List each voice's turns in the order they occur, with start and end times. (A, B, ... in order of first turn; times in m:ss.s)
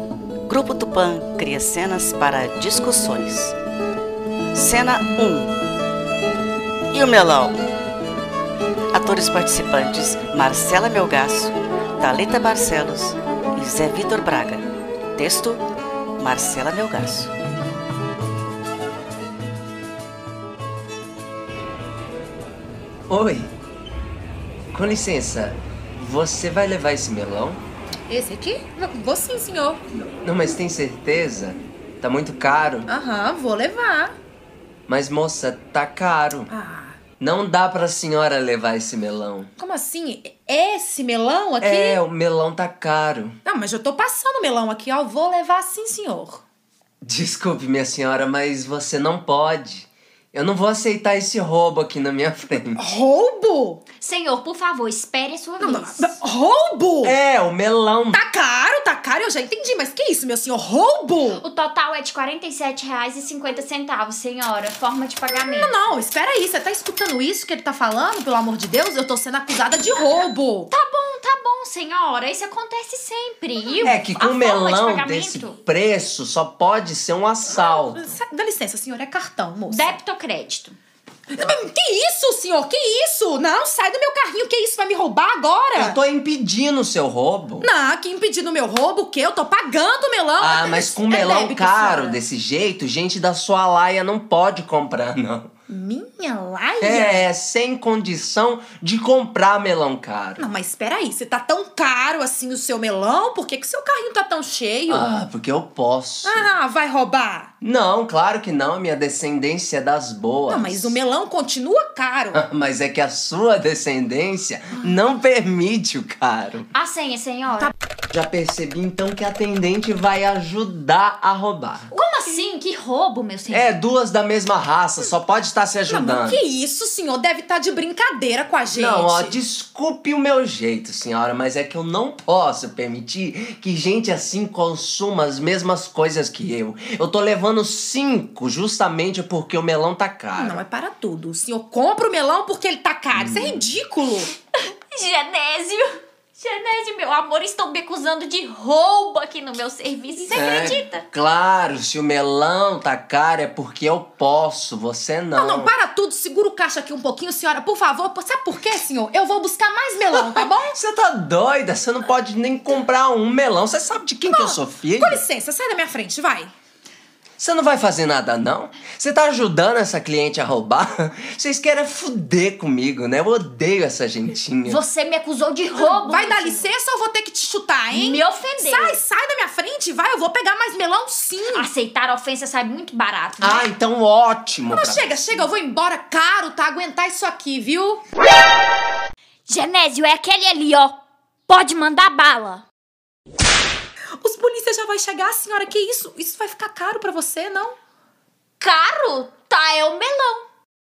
0:00.5-0:03.6 A
0:04.5-0:05.6 A
0:06.9-0:07.6 A
0:08.9-0:15.6 A
0:16.2-0:17.3 A
0:23.1-0:23.5 B
0:24.7-0:27.6 B
0:28.1-0:29.8 C
0:30.2-0:32.9 B
0:32.9-0:34.1 C
0:34.9-0:36.5 B
0:36.5-0:37.0 C
0:37.2-0:39.5 B
0:39.6-0:42.0 C
0:41.6-0:43.4 B
0:43.4-0:46.4 C
0:47.0-0:52.8 B
0:52.8-0:53.8 C
0:54.0-0:56.1 D
0:55.6-0:57.2 C
0:57.0-0:58.2 B
0:58.1-1:01.4 C
1:01.4-1:05.8 D
1:05.5-1:10.7 C
1:10.7-1:15.6 D
1:13.8-1:18.2 B
1:17.5-1:20.0 C
1:19.7-1:20.8 D
1:21.3-1:26.0 C
1:25.7-1:27.7 B
1:27.6-1:32.2 C
1:30.4-1:35.5 B
1:35.7-1:37.2 C
1:36.8-1:40.5 B
1:40.4-1:45.1 C
1:44.9-1:46.5 B
1:46.2-1:47.5 C
1:47.6-1:51.0 B
1:50.5-1:52.4 C
1:52.3-1:56.7 B
1:56.7-1:57.7 D
1:58.1-2:01.9 B
2:01.9-2:03.8 D
2:03.5-2:06.4 B
2:05.9-2:09.4 C
2:08.7-2:20.6 B
2:20.3-2:24.3 C
2:23.1-2:23.6 B
2:24.9-2:31.0 D
2:30.2-2:30.8 C
2:30.3-2:35.7 B
2:35.4-2:40.8 C
2:40.1-2:45.2 B
2:44.3-2:46.5 C
2:47.4-2:54.8 B
2:54.6-2:56.7 D
2:55.7-3:01.7 C
2:57.9-2:59.0 D
3:01.5-3:03.7 D
3:03.4-3:05.4 B
3:04.7-3:08.0 C
3:09.5-3:11.0 D
3:11.5-3:12.6 D
3:14.2-3:17.8 C
3:18.6-3:20.4 D